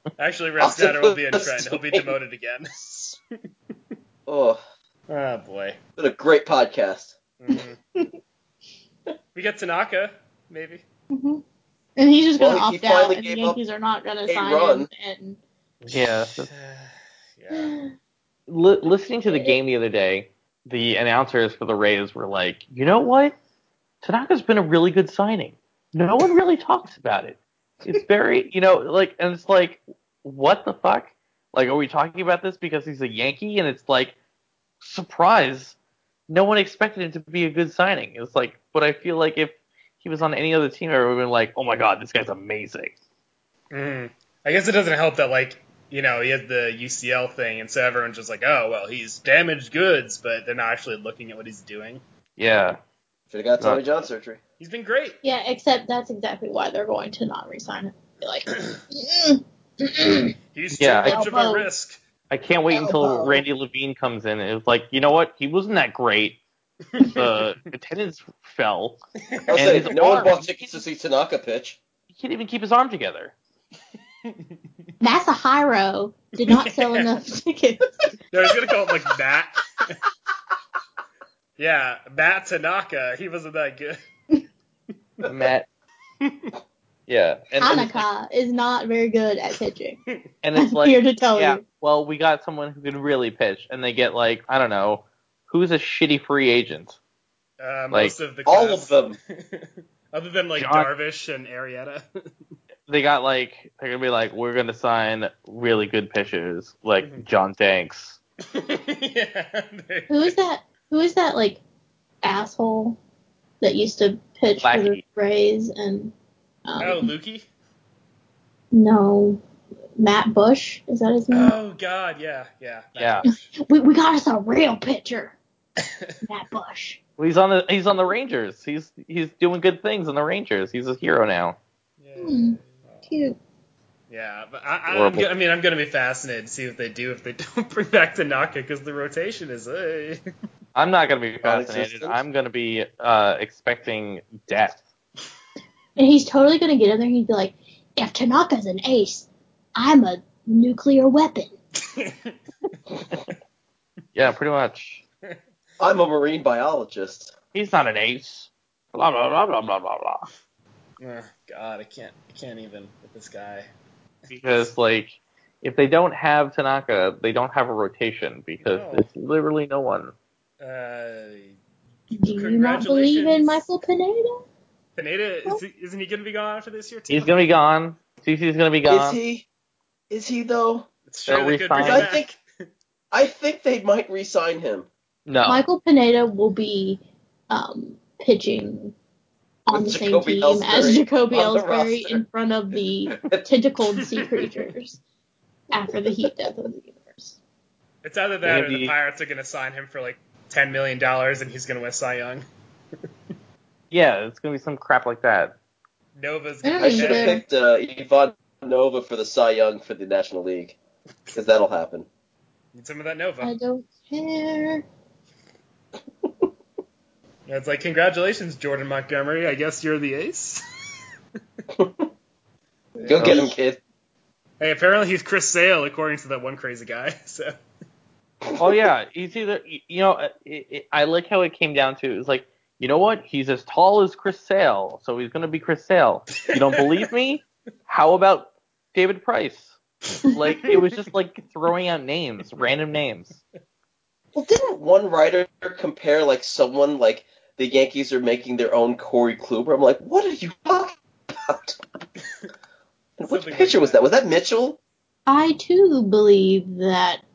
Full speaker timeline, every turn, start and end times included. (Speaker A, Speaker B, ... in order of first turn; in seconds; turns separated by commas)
Speaker A: 0.2-3.0, Speaker B: 0.6-2.2, Speaker B: 4.3-4.6, Speaker A: 5.1-5.8, Speaker B: 6.0-7.2, Speaker A: 7.4-7.8, Speaker C: 7.5-8.2, Speaker A: 9.3-10.8, Speaker C: 11.1-11.4, Speaker C: 12.0-15.4, Speaker B: 12.4-13.6, Speaker B: 14.3-14.9, Speaker D: 15.8-16.5, Speaker A: 16.0-17.7, Speaker C: 17.5-17.9, Speaker D: 18.5-23.4, Speaker D: 24.0-34.1, Speaker D: 34.8-35.8, Speaker D: 36.3-42.9, Speaker A: 43.7-52.0, Speaker D: 52.4-52.8, Speaker B: 53.3-54.4, Speaker A: 54.6-55.2, Speaker C: 55.2-60.3, Speaker A: 60.5-62.0, Speaker D: 60.8-61.3, Speaker C: 61.1-61.7, Speaker D: 62.3-66.4, Speaker C: 62.8-63.3, Speaker D: 67.0-69.0, Speaker A: 67.0-67.4, Speaker A: 69.3-70.4, Speaker B: 69.5-71.8, Speaker D: 69.5-70.5, Speaker D: 72.1-73.3, Speaker C: 75.0-77.8, Speaker A: 76.4-77.1, Speaker A: 78.3-80.0, Speaker A: 81.6-84.0, Speaker D: 85.2-85.7, Speaker A: 86.2-86.5, Speaker D: 87.1-88.0, Speaker C: 87.6-90.0, Speaker D: 90.4-97.0, Speaker C: 90.6-91.6, Speaker A: 97.6-102.0, Speaker D: 97.9-98.2, Speaker B: 98.5-99.2, Speaker D: 100.6-100.9, Speaker D: 102.9-108.2, Speaker A: 107.0-107.3, Speaker A: 108.5-110.4, Speaker C: 110.1-111.6, Speaker C: 112.2-113.0, Speaker C: 113.6-116.1, Speaker D: 114.6-115.0, Speaker C: 116.7-117.1, Speaker A: 116.8-117.5, Speaker C: 118.7-119.4, Speaker C: 120.0-121.6, Speaker A: 121.3-123.4, Speaker D: 123.0-123.3, Speaker C: 123.3-125.4, Speaker A: 125.8-126.1, Speaker C: 126.2-127.0, Speaker D: 127.2-131.6, Speaker A: 132.0-133.1, Speaker C: 132.2-133.4, Speaker A: 134.1-140.2, Speaker D: 134.9-135.3, Speaker D: 140.8-144.8, Speaker B: 141.4-142.2, Speaker C: 146.0-151.5, Speaker A: 151.9-152.3, Speaker D: 154.2-155.0, Speaker B: 155.8-157.3, Speaker D: 157.5-160.3, Speaker A: 161.0-163.7, Speaker D: 164.3-170.1, Speaker A: 168.6-169.1, Speaker A: 170.6-171.6, Speaker C: 172.1-174.4, Speaker A: 172.3-173.7, Speaker A: 175.0-177.5, Speaker D: 177.1-179.2, Speaker B: 178.8-179.5, Speaker B: 180.1-180.9, Speaker A: 181.1-182.4, Speaker D: 181.3-182.1, Speaker B: 181.8-182.3, Speaker B: 183.1-184.9, Speaker D: 185.3-185.6, Speaker C: 185.4-188.9, Speaker C: 189.7-195.0, Speaker B: 189.7-192.2, Speaker B: 193.1-193.5, Speaker C: 195.7-197.4, Speaker A: 198.0-202.4, Speaker D: 198.4-198.9, Speaker D: 203.9-205.6, Speaker A: 206.2-207.4, Speaker C: 206.6-207.4, Speaker B: 206.8-210.8, Speaker B: 211.3-212.1, Speaker A: 212.7-213.5, Speaker C: 213.4-214.8, Speaker A: 217.5-220.6, Speaker B: 221.8-222.1, Speaker C: 223.0-223.5, Speaker A: 223.0-223.4, Speaker B: 223.1-223.8, Speaker A: 224.6-227.5, Speaker B: 228.4-228.8, Speaker D: 228.6-243.4, Speaker B: 244.3-251.8, Speaker B: 253.2-254.8, Speaker A: 253.3-254.0, Speaker C: 255.3-257.2